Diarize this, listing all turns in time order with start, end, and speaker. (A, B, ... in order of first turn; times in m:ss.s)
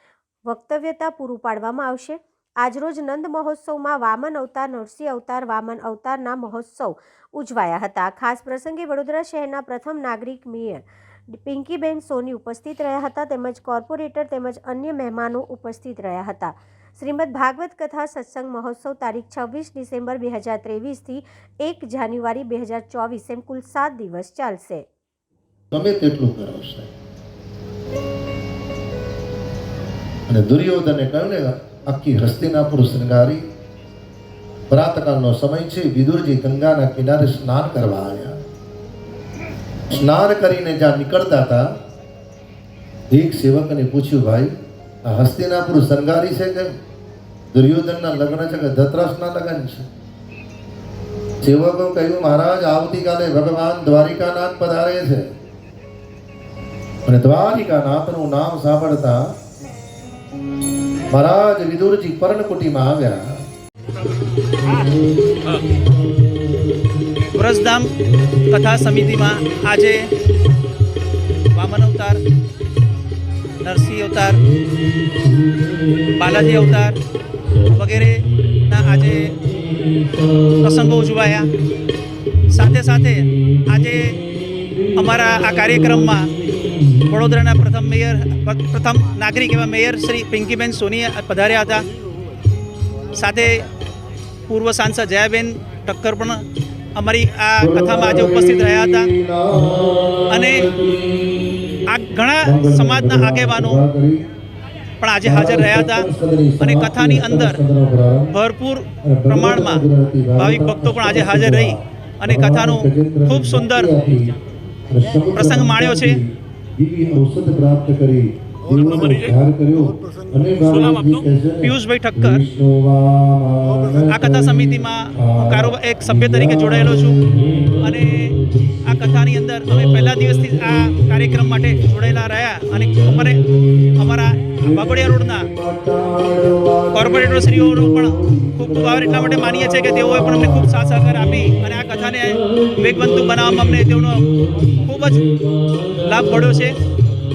0:00.5-0:24.8 A
0:25.7-0:26.9 B
0:30.3-0:33.4 B
0:34.7-0:38.4 B
0:39.9-0:41.6 B
0:43.1-0:44.5 B
0:45.0-0:46.7 B
0:47.5-0:49.9 B
0:51.4-0:55.3 B
0:57.0-0:59.3 B
1:01.1-1:03.4 B
1:07.3-1:07.9 C
1:08.5-1:10.1 C
1:11.5-1:12.2 C
1:13.6-1:14.4 C
1:16.1-1:17.0 C
1:17.6-1:19.4 C
1:20.6-1:21.5 C
1:22.5-1:24.2 C
1:24.9-1:26.3 C
1:27.1-1:31.8 C
1:33.1-1:33.6 C
1:34.5-1:36.4 C
1:36.9-1:39.1 C
1:37.6-1:41.8 B
1:40.3-1:40.7 C
1:41.8-1:43.8 C
1:42.4-1:44.2 B
1:45.0-1:47.6 C
1:45.2-1:48.3 B
1:48.4-1:49.8 C
1:49.0-1:54.3 B
1:50.4-1:53.9 C
1:54.9-2:07.5 B
1:55.3-1:56.2 C
2:01.6-2:02.4 C
2:04.0-2:07.2 C
2:07.8-2:08.4 C
2:08.9-2:13.4 C
2:14.0-2:15.5 C
2:14.6-2:20.7 B
2:16.9-2:24.3 C
2:24.8-2:25.3 C
2:26.0-2:26.8 C